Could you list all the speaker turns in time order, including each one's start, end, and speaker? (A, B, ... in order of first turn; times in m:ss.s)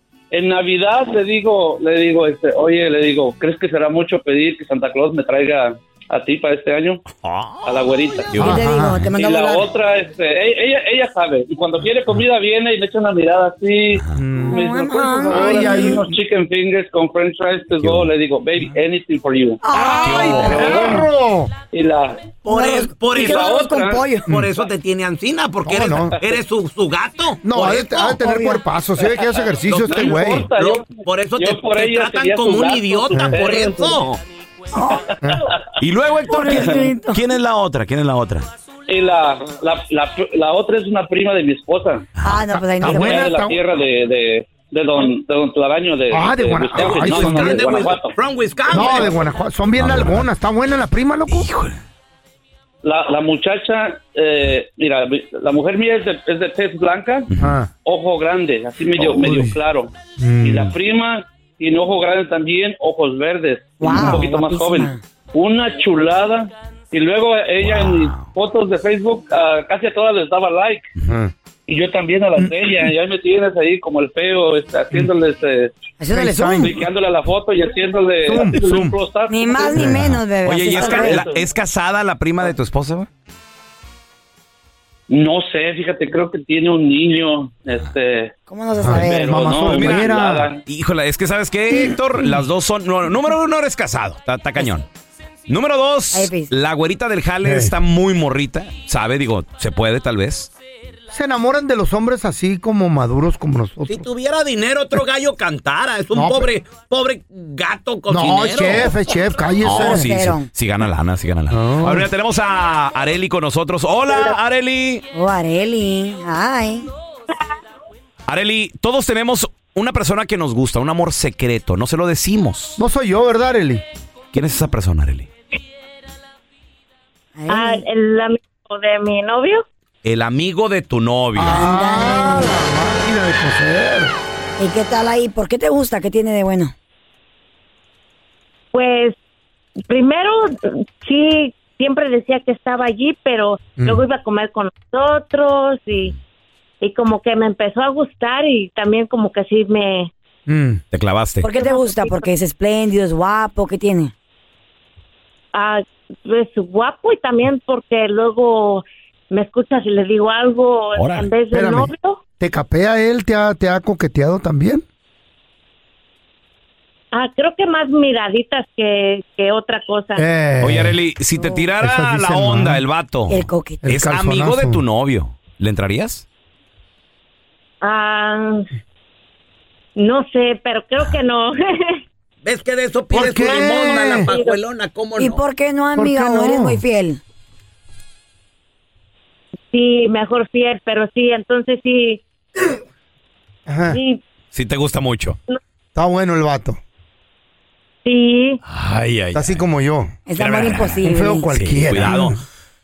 0:00.3-0:07.0 A
0:07.2-0:07.7 B
0:07.6-0:08.3 A
0:08.3-0:09.1 B
0:08.4-0:09.6 C
0:08.4-0:08.9 D
0:09.1-0:19.6 A
0:13.9-0:14.2 B
0:14.1-0:14.7 D
0:14.4-0:16.0 C
0:15.2-0:16.1 D
0:17.8-0:18.1 B
0:19.6-0:21.0 C
0:19.7-0:21.5 D
0:20.0-0:21.0 B
0:20.5-0:21.0 A
0:21.7-0:22.3 A
0:22.4-0:28.2 E
0:22.5-0:24.3 C
0:23.1-0:24.1 A
0:24.3-0:24.5 D
0:25.6-0:26.2 D
0:27.4-0:30.5 D
0:28.1-0:28.6 C
0:29.6-0:34.2 E
0:29.9-0:34.0 A
0:33.1-0:33.4 D
0:34.8-0:35.0 C
0:34.9-0:35.4 A
0:35.8-0:38.5 B
0:36.2-0:37.2 C
0:38.9-0:42.1 A
0:42.2-0:42.5 B
0:42.2-0:43.3 C
0:42.8-0:43.6 D
0:42.8-0:48.2 A
0:46.1-0:47.7 D
0:46.8-0:49.2 E
0:48.7-0:51.5 D
0:49.8-0:50.3 B
0:51.3-0:51.8 B
0:52.8-0:57.3 A
0:57.3-0:57.6 B
0:57.4-0:57.7 D
0:57.8-0:59.9 A
0:59.0-0:59.5 D
1:00.2-1:00.7 D
1:00.4-1:10.9 A
1:03.8-1:05.0 C
1:03.9-1:04.2 D
1:07.6-1:08.2 B
1:11.1-1:11.3 D
1:11.7-1:15.7 A
1:16.0-1:16.8 C
1:16.1-1:16.7 D
1:16.5-1:19.8 A
1:18.2-1:19.0 D
1:19.3-1:21.2 C
1:19.8-1:20.0 D
1:19.8-1:23.1 B
1:20.7-1:21.4 A
1:25.1-1:28.3 A
1:28.5-1:29.5 C
1:28.8-1:30.5 D
1:28.9-1:30.6 A
1:29.6-1:30.1 B
1:30.6-1:34.8 B
1:35.5-1:40.5 B
1:36.1-1:36.5 C
1:37.4-1:37.7 D
1:41.1-1:44.1 D
1:43.9-1:48.9 E
1:46.1-1:46.5 D
1:48.1-1:50.1 D
1:49.6-1:55.0 B
1:49.6-1:50.5 C
1:51.5-1:52.1 D
1:55.1-1:56.9 C
1:58.3-2:02.8 B
2:02.8-2:03.8 D
2:04.3-2:05.3 B
2:07.4-2:07.8 C
2:07.5-2:09.6 F
2:10.0-2:11.6 B
2:11.4-2:14.1 D
2:11.4-2:12.6 C
2:14.6-2:16.7 C
2:18.7-2:19.1 F
2:19.9-2:26.1 F
2:23.8-2:24.0 D
2:26.8-2:30.1 F
2:30.5-2:30.8 D
2:30.9-2:31.5 B
2:31.4-2:34.1 C
2:31.5-2:32.3 F
2:35.5-2:42.2 F
2:40.9-2:41.3 B
2:41.5-2:44.8 D
2:47.1-2:50.2 F
2:50.1-2:51.0 D
2:50.6-2:56.2 B
2:51.4-2:51.7 C
2:51.8-2:52.8 D
2:53.3-2:53.8 C
2:53.8-2:54.8 D
2:57.8-2:58.6 F
3:00.0-3:02.0 F
3:02.4-3:05.4 E
3:03.1-3:04.3 D
3:04.3-3:04.6 F
3:05.2-3:07.2 C
3:06.0-3:06.8 D
3:09.7-3:12.6 F
3:13.7-3:14.0 D
3:13.9-3:14.2 F
3:14.5-3:15.4 B
3:15.9-3:16.8 D
3:18.0-3:18.6 F
3:18.6-3:19.6 B
3:19.3-3:20.1 D
3:20.2-3:21.5 C
3:20.4-3:22.4 B
3:21.0-3:22.4 D